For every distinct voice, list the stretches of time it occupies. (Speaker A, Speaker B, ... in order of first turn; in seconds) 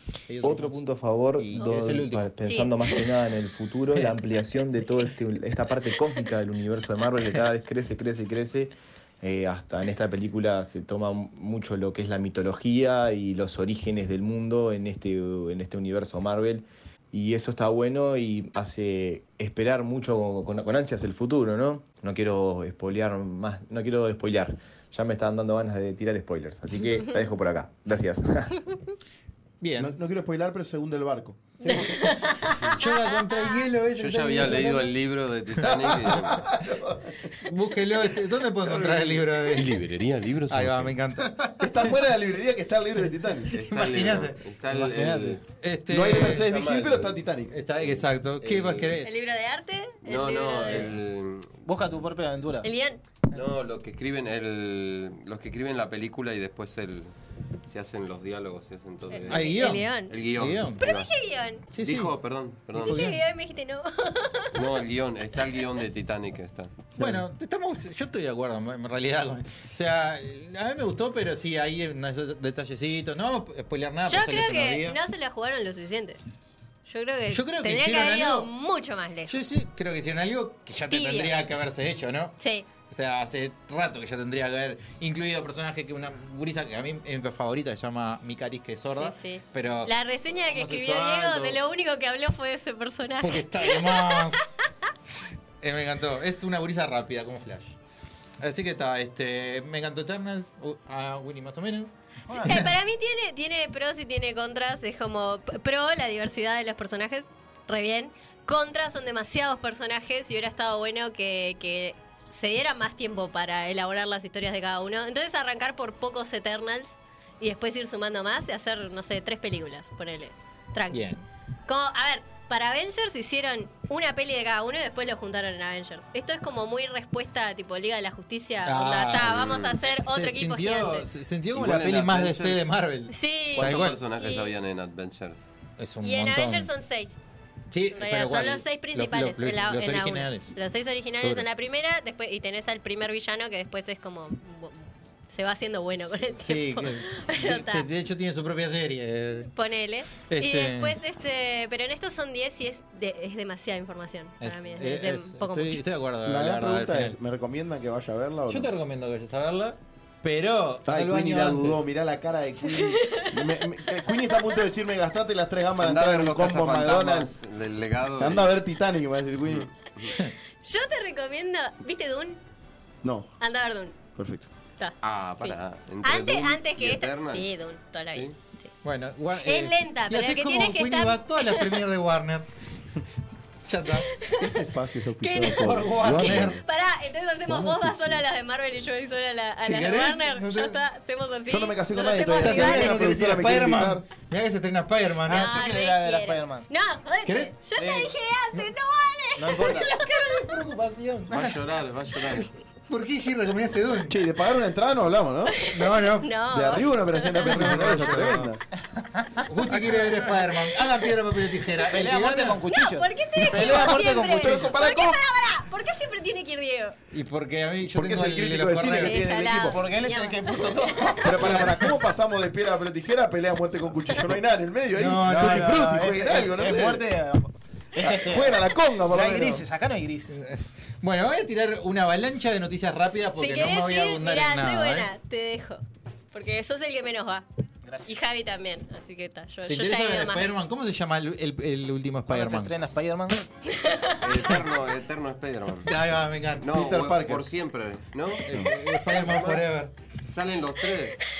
Speaker A: 0.3-2.3, 29.6-29.9, 31.6-34.9, 35.6-36.4, 37.4-39.9, 40.5-42.0, 43.5-46.5, 47.5-49.1, 50.7-51.0, 59.3-60.8, 61.7-62.1, 62.7-63.2, 67.0-75.0, 77.3-78.5, 79.3-91.6, 93.2-94.5, 95.6-97.8, 98.4-102.7, 120.9-121.2, 128.6-134.0, 135.8-136.7, 137.7-140.6, 141.2-141.4, 146.3-149.5, 150.3-151.0, 154.4-157.2, 158.5-161.8, 178.8-182.5, 183.6-184.1, 185.5-186.6, 189.6-190.8, 192.4-195.6, 197.2-197.5, 199.6-201.6, 202.4-204.2, 205.7-206.3, 207.4-208.5, 209.4-212.7, 217.1-219.2, 221.4-221.9, 224.9-225.8, 230.3-235.1, 239.7-242.7, 245.9-246.8, 248.4-249.9
Speaker B: 0.4-28.7
Speaker C: 2.4-3.0, 31.6-32.9, 49.0-50.9, 52.6-53.0, 59.1-60.1, 60.8-61.6, 62.8-64.6, 74.0-76.2, 76.9-79.3, 80.9-81.4, 82.4-82.7, 88.9-94.5, 102.4-121.1, 121.7-131.1, 133.1-134.5, 136.0-137.2, 137.9-147.9, 149.5-155.8, 162.8-163.4, 170.6-172.4, 173.4-174.0, 174.8-178.7, 179.4-181.7, 184.2-184.7, 185.2-192.9, 195.3-200.4, 205.5-208.2, 212.7-216.9, 219.0-221.6, 233.4-237.4, 238.1-240.5, 243.7-244.5
Speaker D: 29.8-31.8, 36.3-37.1, 41.6-43.5, 45.9-47.5, 156.2-158.7, 160.9-167.3, 168.2-169.7, 173.0-173.3, 174.2-174.5, 184.4-186.6, 187.5-188.2, 191.4-194.1, 204.1-205.6, 206.5-208.6, 213.4-215.2, 217.9-219.8, 221.2-227.1, 228.0-229.6, 246.7-247.4
Speaker E: 34.0-36.4, 38.7-41.0, 43.5-45.4, 46.2-47.2, 47.8-49.0, 50.0-51.5, 53.3-57.1, 57.7-59.5, 60.1-61.1, 61.8-63.0, 64.5-66.7, 129.3-129.7, 131.5-132.7, 133.6-135.5, 165.8-168.5, 169.5-170.1, 175.0-177.5, 201.3-202.5, 244.2-245.9, 246.6-249.6, 250.3-251.2
Speaker F: 51.6-52.7, 102.3-102.6, 195.2-196.7, 197.8-198.1, 199.4-199.9, 211.8-214.7, 219.7-221.6, 225.2-230.4, 237.8-238.2, 242.3-243.4